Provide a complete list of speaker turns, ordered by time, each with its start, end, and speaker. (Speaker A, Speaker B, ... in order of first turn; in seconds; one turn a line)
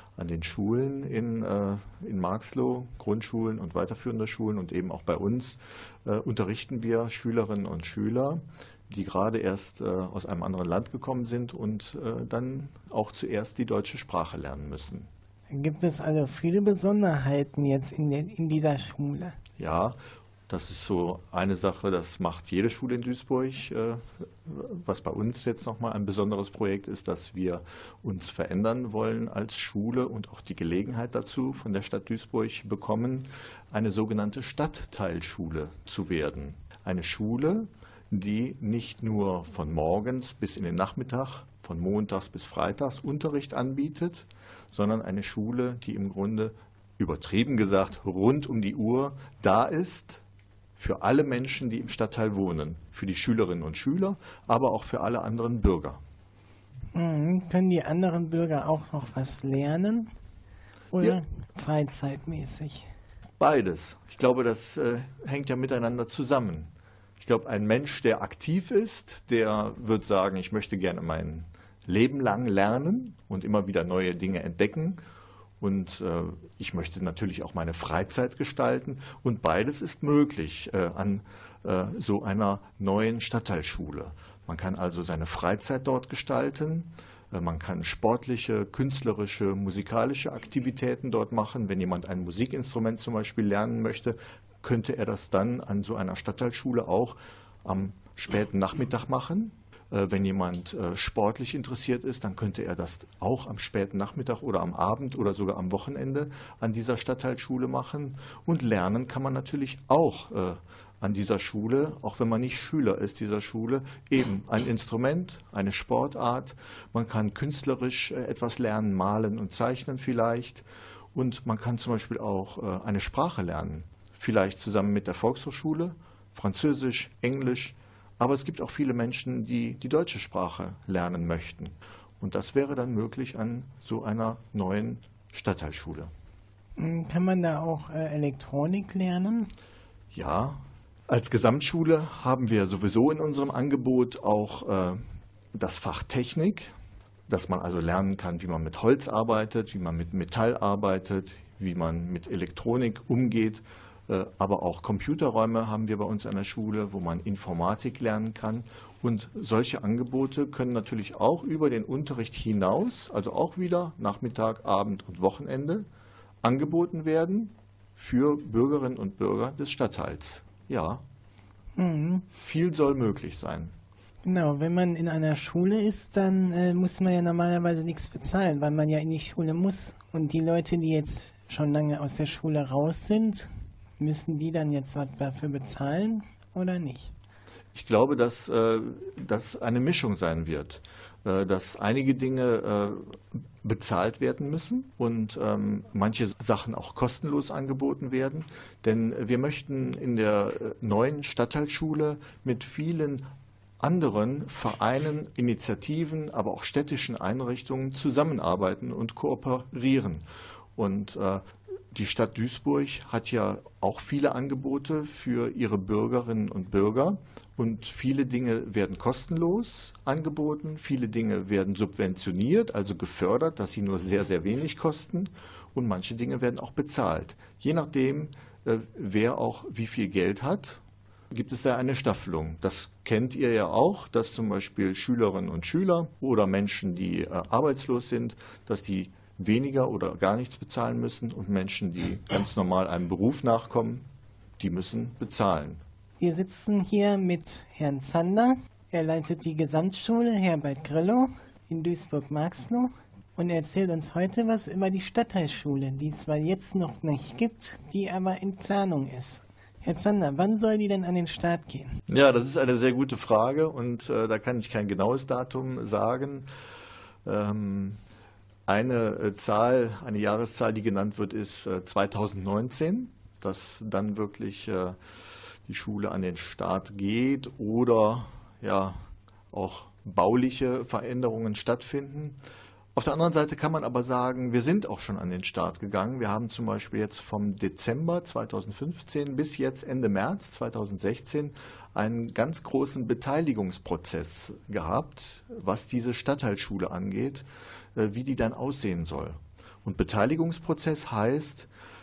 Speaker A: 0.2-15.1
Speaker B: 15.5-19.4
Speaker A: 19.6-20.0
Speaker A: 20.5-50.2
Speaker A: 50.8-56.0
Speaker B: 56.9-60.1
Speaker B: 60.9-62.9
Speaker A: 63.4-75.0
Speaker A: 75.6-136.1
Speaker B: 136.8-139.5
Speaker A: 140.1-145.0
Speaker A: 145.5-146.7
Speaker A: 147.3-165.9
Speaker A: 166.4-171.0
Speaker B: 171.8-172.3
Speaker A: 172.4-173.7
Speaker B: 174.2-187.1
Speaker A: 187.7-203.3
Speaker A: 203.8-244.1
Speaker A: 244.6-245.8
Speaker B: 246.2-262.0
Speaker A: 262.1-266.5
Speaker A: 267.2-268.0
Speaker A: 268.7-275.0
Speaker A: 275.7-282.4
Speaker A: 282.9-301.7